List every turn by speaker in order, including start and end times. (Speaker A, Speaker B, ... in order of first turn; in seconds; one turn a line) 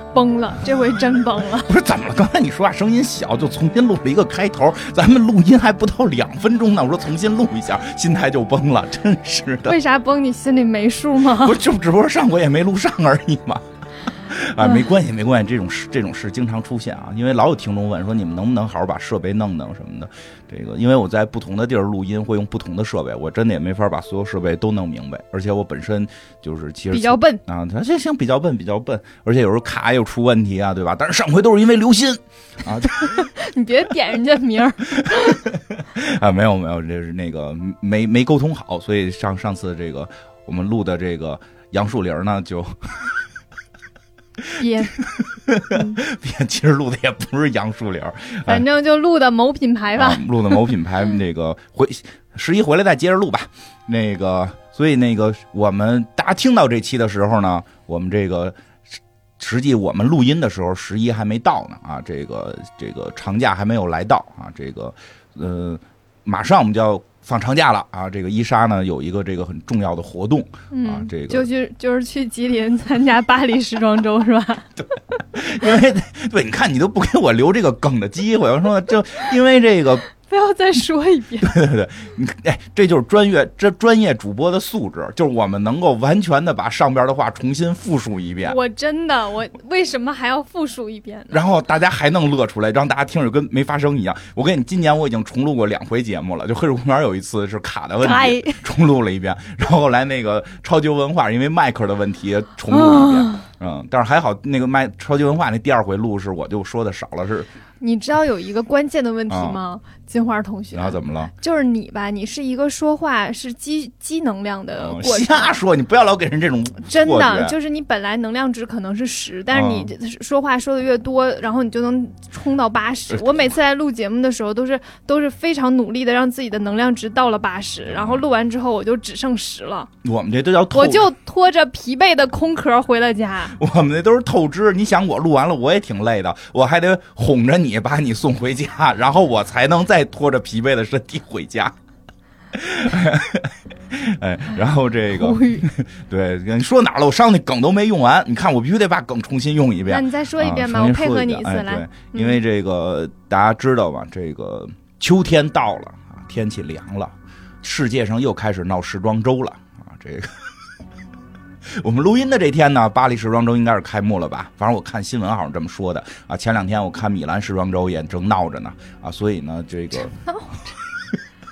Speaker A: 0.1-1.7
Speaker B: 1.6-9.8
Speaker A: 9.7-11.6
Speaker B: 11.4-33.3
Speaker A: 14.6-14.9
Speaker A: 26.9-27.4
Speaker A: 32.9-35.4
Speaker B: 35.0-43.1
Speaker B: 44.5-48.6
Speaker A: 44.6-45.0
Speaker A: 45.7-46.0
Speaker A: 48.5-50.6
Speaker B: 50.0-71.5
Speaker A: 70.7-75.0
Speaker B: 75.3-80.1
Speaker A: 80.2-81.6
Speaker B: 81.4-88.6
Speaker A: 88.4-91.4
Speaker B: 91.3-107.5
Speaker A: 98.0-98.6
Speaker A: 102.7-103.5
Speaker A: 107.8-115.6
Speaker B: 109.3-109.6
Speaker B: 110.7-111.3
Speaker B: 114.8-117.5
Speaker A: 116.8-129.9
Speaker B: 119.5-119.9
Speaker B: 123.1-123.5
Speaker B: 127.9-128.2
Speaker B: 130.0-131.1
Speaker A: 130.7-133.6
Speaker B: 133.6-141.8
Speaker B: 142.5-160.4
Speaker A: 145.1-145.7
Speaker A: 149.9-152.4
Speaker B: 161.7-170.2
Speaker A: 170.1-170.8